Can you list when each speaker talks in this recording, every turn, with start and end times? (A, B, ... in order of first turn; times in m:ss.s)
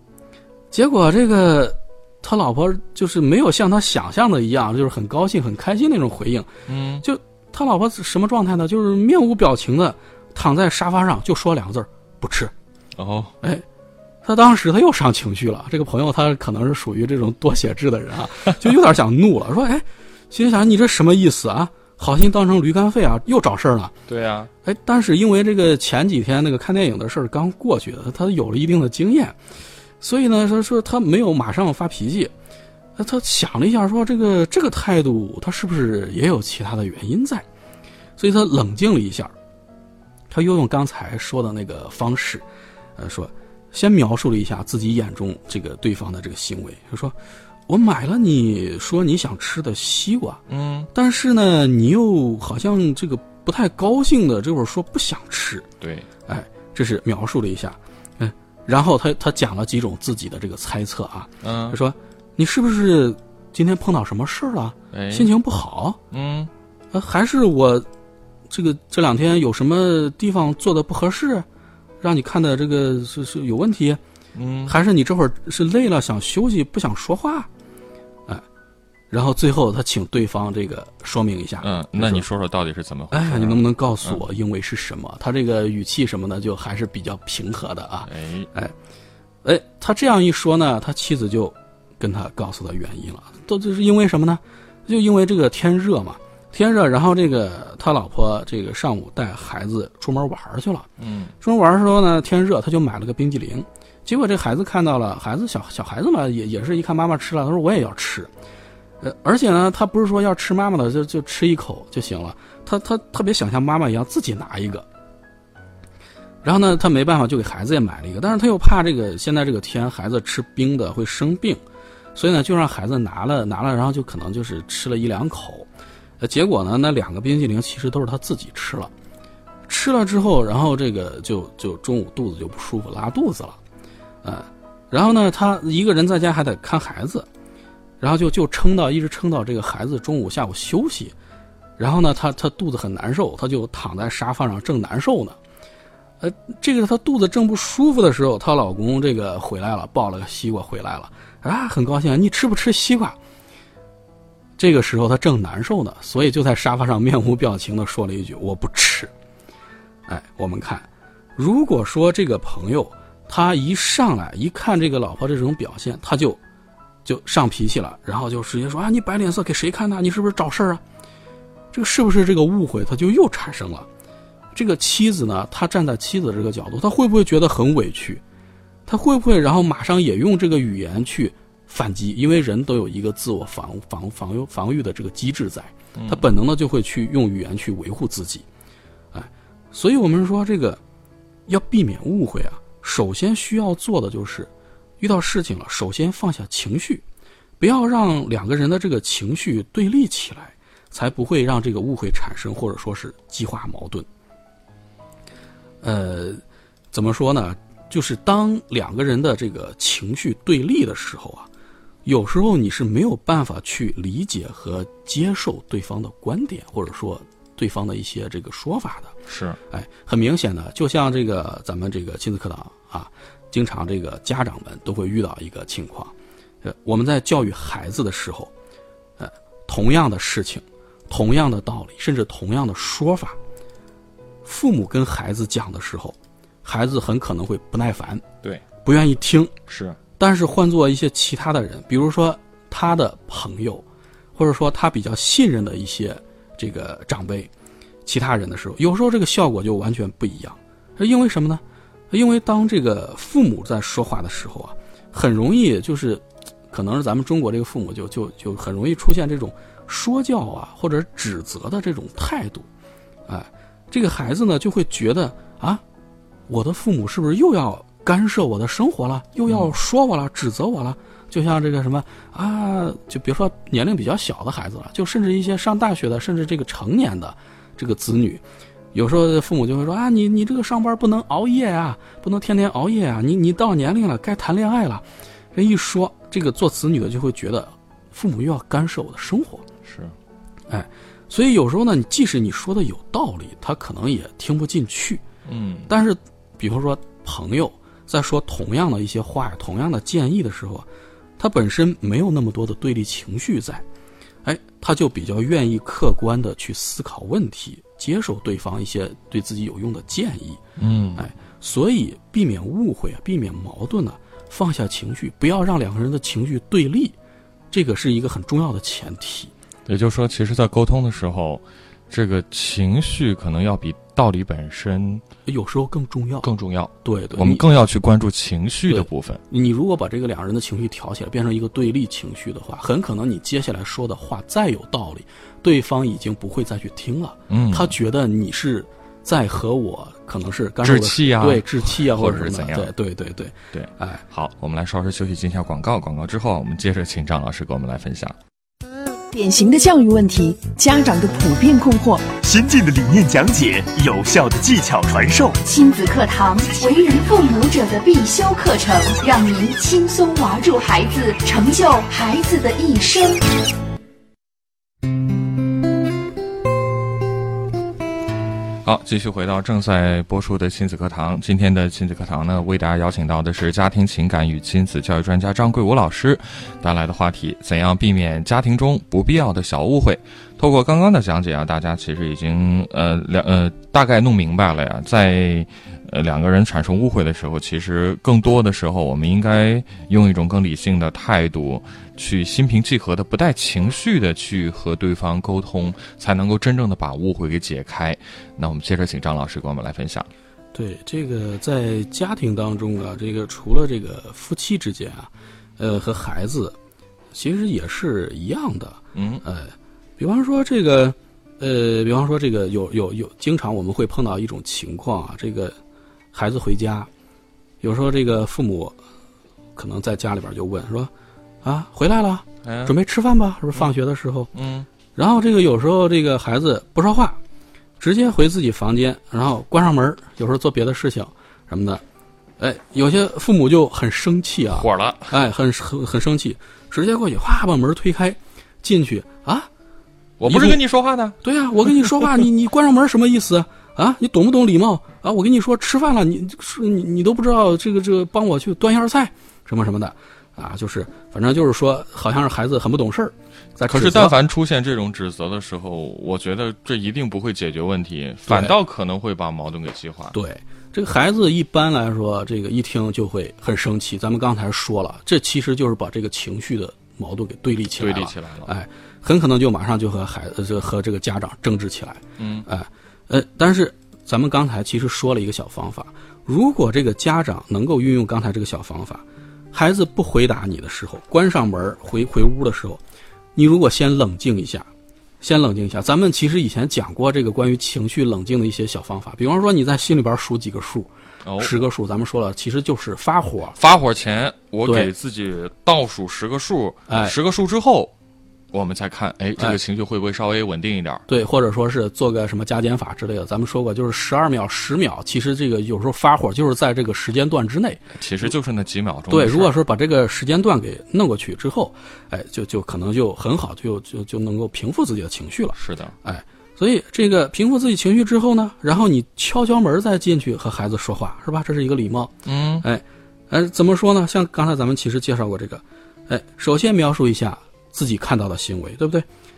0:00.7-0:06.5 A
0:06.7-0:07.0 B
0:07.0-0:12.5 A
0:13.0-0:13.3 B
0:14.2-0:23.9 A
0:24.1-0:24.5 B
0:24.6-0:29.4 A
0:30.0-0:32.3 A
0:33.0-0:37.4 A
0:38.2-0:39.3 A
0:40.3-0:42.4 A
0:43.0-0:47.2 A
0:47.7-0:50.4 A
0:50.5-0:50.9 B
0:50.9-0:55.7 A
0:55.8-0:56.1 B
0:56.3-1:06.0 A
1:01.4-1:01.8 B
1:04.9-1:05.3 B
1:06.1-1:06.5 B
1:06.9-1:07.8 A
1:08.5-1:11.4 A
1:12.0-1:14.0 A
1:14.3-1:14.8 B
1:14.6-1:17.5 A
1:19.1-1:22.2 A
1:21.6-1:24.2 B
1:23.1-1:28.7 A
1:28.0-1:28.5 B
1:29.4-1:40.9 A
1:41.0-1:41.3 B
1:41.4-1:48.3 A
1:49.0-1:54.8 A
1:56.4-2:01.6 A
2:02.1-2:05.7 A
2:06.2-2:08.9 A
2:09.7-2:13.6 A
2:14.2-2:17.2 A
2:18.0-2:21.1 A
2:21.8-2:25.4 A
2:26.2-2:33.2 A
2:34.6-2:39.1 A
2:40.1-2:46.4 A
2:47.0-2:50.8 A
2:51.7-2:53.9 A
2:54.5-2:58.2 A
2:58.9-3:08.4 A
3:05.9-3:06.2 B
3:09.1-3:10.8 A
3:11.5-3:17.0 A
3:17.6-3:24.0 A
3:25.8-3:26.4 A
3:26.9-3:31.5 A
3:32.0-3:39.2 A
3:39.3-3:39.6 B
3:39.7-3:48.5 A
3:49.2-3:53.4 A
3:54.4-3:58.2 A
3:58.8-3:59.5 A
3:59.7-4:00.0 B
4:00.2-4:03.8 A
4:04.4-4:07.5 A
4:08.0-4:22.7 A
4:23.3-4:25.8 A
4:26.5-4:38.4 A
4:29.5-4:29.7 B
4:38.9-4:49.6 A
4:49.8-4:50.1 B
4:50.7-4:55.2 A
4:55.4-4:55.9 B
4:55.9-5:00.8 A
5:01.4-5:03.8 A
5:04.4-5:10.6 A
5:10.8-5:11.3 B
5:11.2-5:17.1 A
5:17.7-5:19.5 A
5:19.8-5:25.2 B
5:25.4-5:26.5 A
5:26.4-5:29.4 B
5:27.0-5:27.6 A
5:28.9-5:44.2 A
5:37.5-5:37.9 B
5:40.8-5:42.9 B
5:43.7-5:48.4 B
5:49.3-5:52.3 C
5:52.4-5:55.6 D
5:55.6-6:03.4 C
6:08.8-6:40.3 B
6:40.7-6:46.8 A
6:47.3-6:55.8 A
6:49.1-6:49.4 B
6:56.3-6:57.1 A
6:57.8-6:59.0 A
6:59.8-7:01.1 A
7:01.6-7:04.5 A
7:02.6-7:02.9 B
7:04.5-7:04.9 B
7:05.2-7:07.4 A
7:08.0-7:12.0 A
7:12.6-7:19.7 A
7:14.7-7:15.4 B
7:20.4-7:22.4 B
7:20.4-7:20.8 A
7:21.4-7:34.3 A
7:33.8-7:40.4 B
7:38.5-7:38.7 A
7:40.3-8:03.0 A
7:48.0-7:48.7 B
7:52.4-7:52.7 B
8:03.5-8:04.9 A
8:05.4-8:13.8 A
8:11.4-8:11.8 B
8:13.8-8:18.1 B
8:14.8-8:15.1 A
8:17.1-8:17.3 A
8:18.7-8:21.2 B
8:21.3-8:28.5 A
8:28.1-8:29.7 B
8:29.3-8:49.2 A
8:35.8-8:36.1 B
8:42.4-8:42.8 B